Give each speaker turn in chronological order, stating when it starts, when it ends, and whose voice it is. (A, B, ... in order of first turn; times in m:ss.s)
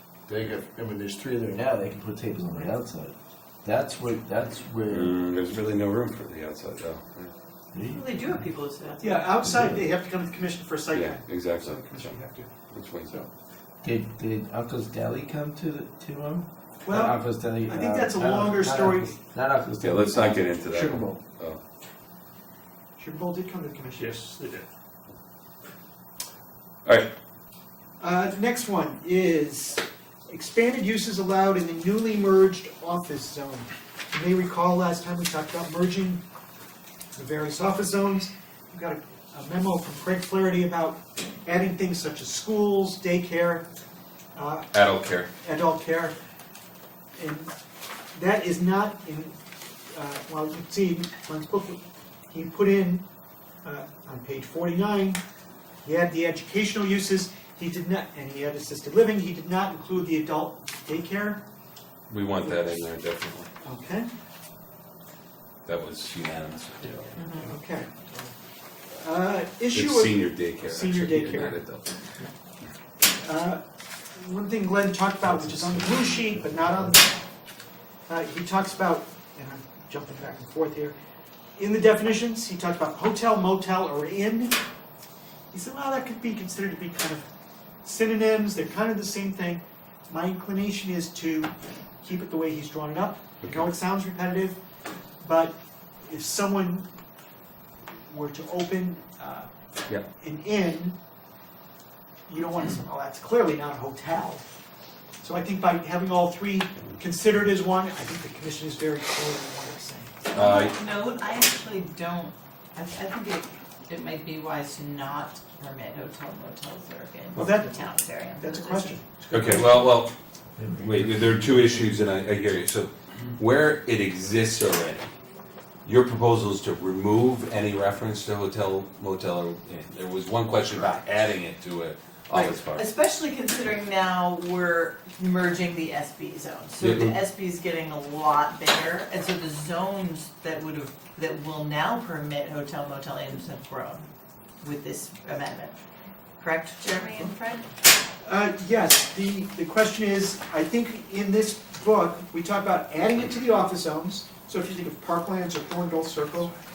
0:00.3-0:05.2 A
0:04.9-0:07.3 B
0:07.7-0:08.0 A
0:07.9-0:09.4 C
0:09.0-0:12.5 D
0:09.5-0:09.8 A
0:10.9-0:12.1 B
0:12.7-0:13.1 B
0:13.8-0:21.2 A
0:16.8-0:19.2 D
0:19.8-0:21.6 B
0:23.0-0:24.1 D
0:24.0-0:24.7 A
0:26.8-0:27.1 B
0:28.0-0:36.2 D
0:37.2-0:43.7 D
0:44.4-0:44.7 D
0:44.7-0:45.3 B
0:45.4-0:46.2 D
0:47.2-0:47.5 D
0:48.1-0:49.4 D
0:49.9-0:53.0 D
0:53.6-0:55.2 D
0:55.8-1:01.4 D
1:02.1-1:03.5 B
1:03.6-1:04.1 D
1:05.6-1:07.1 B
1:07.2-1:07.5 C
1:07.4-1:08.1 D
1:09.0-1:11.6 D
1:09.7-1:11.9 B
1:13.0-1:13.6 D
1:14.2-1:17.2 D
1:15.6-1:15.9 A
1:18.1-1:21.0 D
1:21.6-1:24.6 D
1:25.5-1:27.3 D
1:27.8-1:34.6 D
1:33.4-1:33.7 B
1:35.2-1:36.9 D
1:38.1-1:39.5 D
1:40.1-1:41.0 D
1:42.3-1:44.4 D
1:45.2-1:50.2 D
1:50.3-1:59.0 C
1:50.3-1:50.8 B
1:57.4-1:57.8 D
1:58.4-2:00.0 D
1:59.3-2:00.1 B
2:00.8-2:05.1 B
2:05.8-2:12.9 B
2:12.3-2:24.1 C
2:16.8-2:17.2 B
2:24.6-2:25.8 C
2:26.4-2:27.7 C
2:28.2-2:36.5 D